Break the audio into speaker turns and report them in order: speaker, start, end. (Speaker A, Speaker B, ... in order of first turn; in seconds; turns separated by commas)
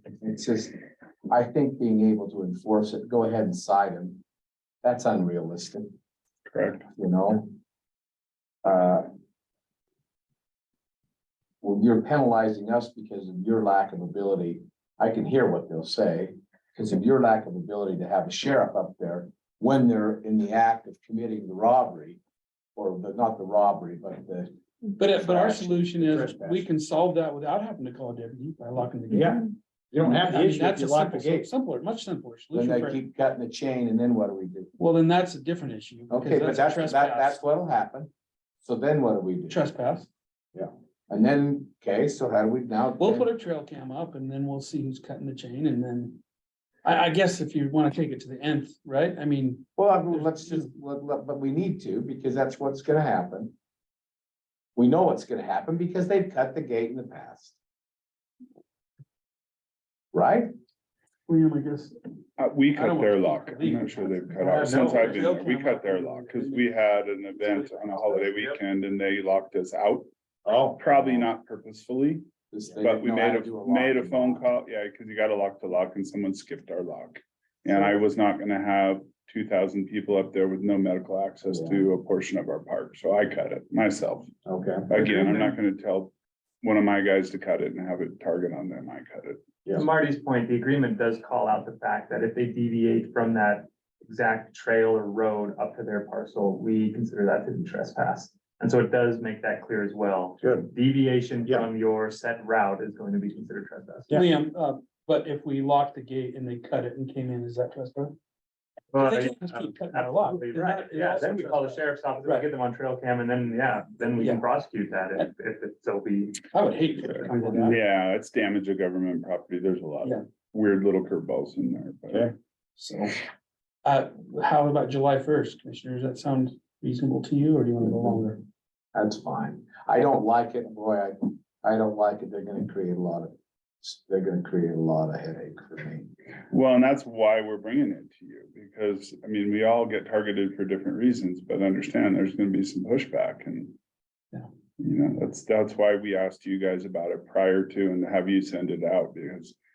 Speaker A: 0.2-0.8, Speaker A: 1.3-4.2, Speaker A: 4.8-5.9, Speaker B: 6.5-6.9, Speaker A: 7.0-7.5, Speaker A: 8.6-9.1, Speaker A: 11.6-22.2, Speaker A: 22.8-24.5, Speaker C: 25.0-33.0, Speaker A: 25.3-25.5, Speaker D: 25.4-26.7, Speaker D: 29.1-31.5, Speaker A: 32.5-34.7, Speaker C: 34.8-37.4, Speaker A: 36.1-38.1, Speaker A: 38.6-39.6, Speaker C: 39.5-40.1, Speaker A: 41.1-43.3, Speaker C: 43.0-46.2, Speaker C: 46.8-50.7, Speaker A: 49.8-53.5, Speaker A: 54.8-57.6, Speaker A: 60.1-60.5, Speaker C: 61.3-62.0, Speaker B: 62.4-70.1, Speaker C: 62.7-66.7, Speaker D: 64.6-65.1, Speaker D: 70.5-70.8, Speaker B: 70.8-72.2, Speaker A: 72.5-74.5, Speaker B: 72.8-84.3, Speaker A: 81.5-81.8, Speaker D: 84.5-84.9, Speaker B: 84.9-89.4, Speaker E: 85.0-85.6, Speaker E: 89.7-104.2, Speaker D: 100.4-100.7, Speaker C: 104.1-108.2, Speaker E: 108.9-116.5, Speaker C: 109.0-112.5, Speaker C: 114.1-114.5, Speaker C: 116.5-117.8, Speaker B: 117.6-122.3, Speaker C: 123.8-128.4, Speaker A: 128.9-136.1, Speaker B: 136.5-143.8, Speaker B: 144.8-149.6